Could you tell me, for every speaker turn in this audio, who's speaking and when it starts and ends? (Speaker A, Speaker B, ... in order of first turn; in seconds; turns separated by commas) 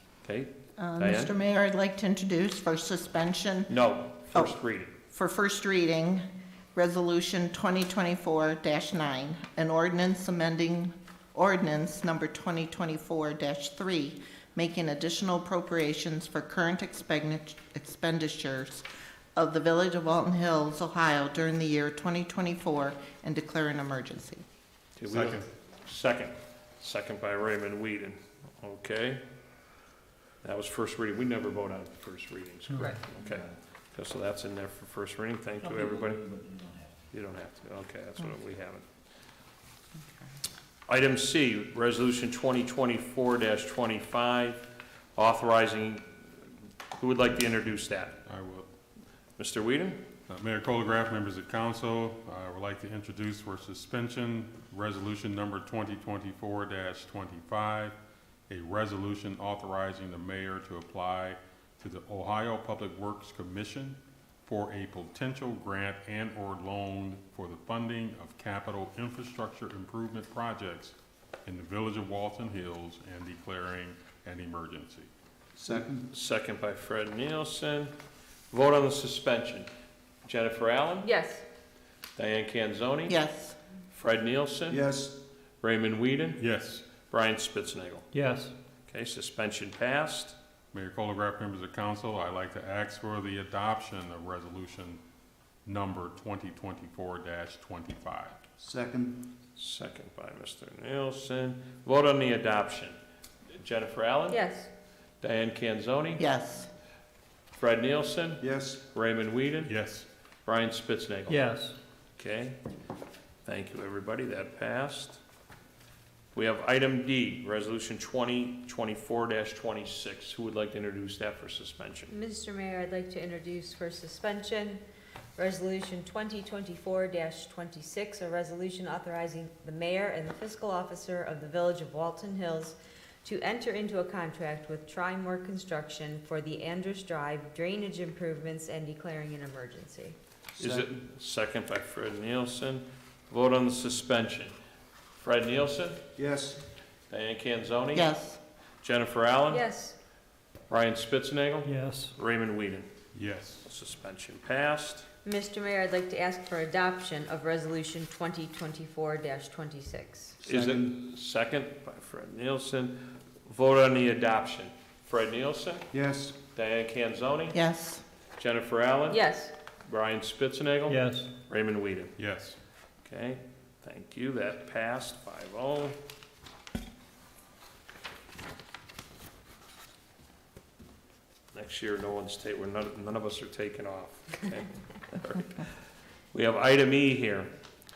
Speaker A: 0.2-1.3, Speaker B: 0.8-3.7, Speaker A: 3.7-4.9, Speaker B: 5.1-24.4, Speaker A: 25.0-29.2, Speaker C: 25.1-25.4, Speaker A: 30.4-36.4, Speaker A: 37.1-38.8, Speaker A: 40.9-46.1, Speaker A: 46.9-48.2, Speaker C: 48.2-48.6, Speaker A: 49.4-50.0, Speaker C: 50.3-57.9, Speaker C: 58.5-75.1, Speaker D: 75.5-76.0, Speaker A: 76.1-77.9, Speaker A: 78.5-79.7, Speaker A: 80.2-81.1, Speaker E: 81.0-81.4, Speaker A: 82.2-83.2, Speaker B: 83.1-83.5, Speaker A: 83.9-84.8, Speaker D: 84.7-85.2, Speaker A: 85.6-86.4, Speaker C: 86.4-86.8, Speaker A: 87.0-88.1, Speaker F: 88.1-88.5, Speaker A: 88.9-90.3, Speaker C: 90.7-95.0, Speaker C: 95.6-98.5, Speaker D: 98.6-99.3, Speaker A: 99.5-103.0, Speaker A: 103.5-104.4, Speaker E: 104.3-104.7, Speaker A: 105.2-106.2, Speaker B: 106.2-106.7, Speaker A: 107.6-109.7, Speaker D: 108.4-108.8, Speaker C: 109.7-110.0, Speaker A: 110.4-111.5, Speaker F: 111.3-111.8, Speaker A: 112.2-112.6, Speaker A: 113.4-115.2, Speaker A: 116.3-122.1, Speaker E: 122.1-124.8, Speaker E: 125.3-140.2, Speaker D: 140.6-140.9, Speaker A: 140.6-144.5, Speaker A: 145.1-146.0, Speaker D: 146.2-146.6, Speaker A: 147.1-148.1, Speaker B: 147.9-148.4, Speaker A: 148.8-149.6, Speaker E: 149.5-150.0, Speaker A: 150.7-152.9, Speaker F: 151.6-152.1, Speaker C: 153.1-153.6, Speaker A: 153.6-155.1, Speaker E: 155.2-160.3, Speaker D: 160.4-160.9, Speaker A: 160.4-165.9, Speaker D: 165.9-166.3, Speaker A: 166.5-167.6, Speaker B: 167.5-168.0, Speaker A: 168.4-169.2, Speaker E: 169.1-169.5, Speaker A: 169.8-172.2, Speaker F: 170.9-171.3, Speaker C: 172.2-172.6, Speaker A: 173.0-176.0, Speaker A: 181.5-185.5, Speaker A: 186.3-187.5